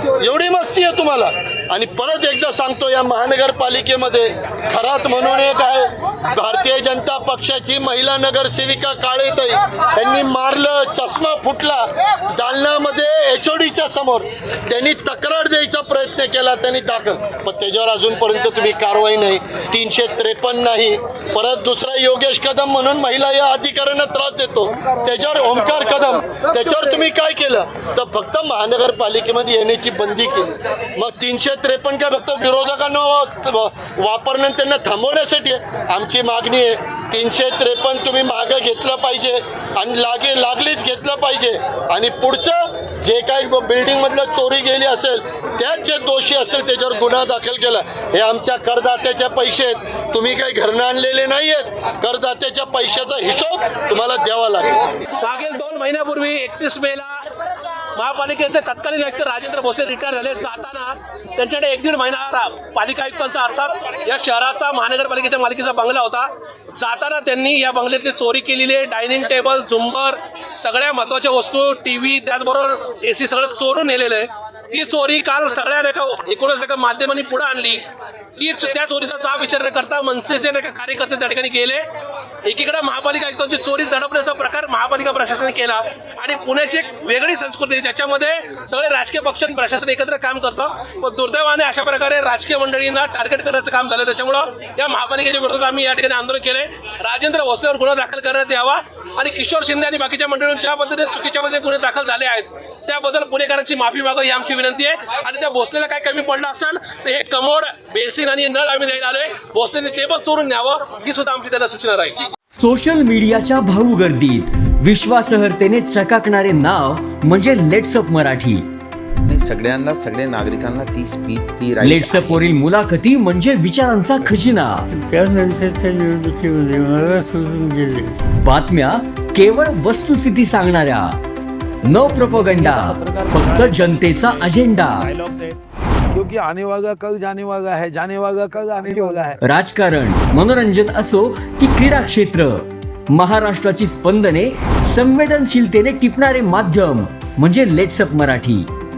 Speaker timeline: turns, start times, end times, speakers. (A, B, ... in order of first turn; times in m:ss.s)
0:00.2-0:54.7 A
0:55.2-0:57.2 B
0:58.0-1:17.8 B
1:18.4-1:21.8 B
1:22.4-1:52.2 B
1:52.6-1:58.6 C
1:59.2-2:02.4 D
2:01.8-2:04.8 C
2:04.9-2:08.2 E
2:08.3-2:11.2 C
2:11.8-2:15.1 C
2:11.9-2:15.6 F
2:16.1-2:19.4 F
2:19.4-2:28.7 C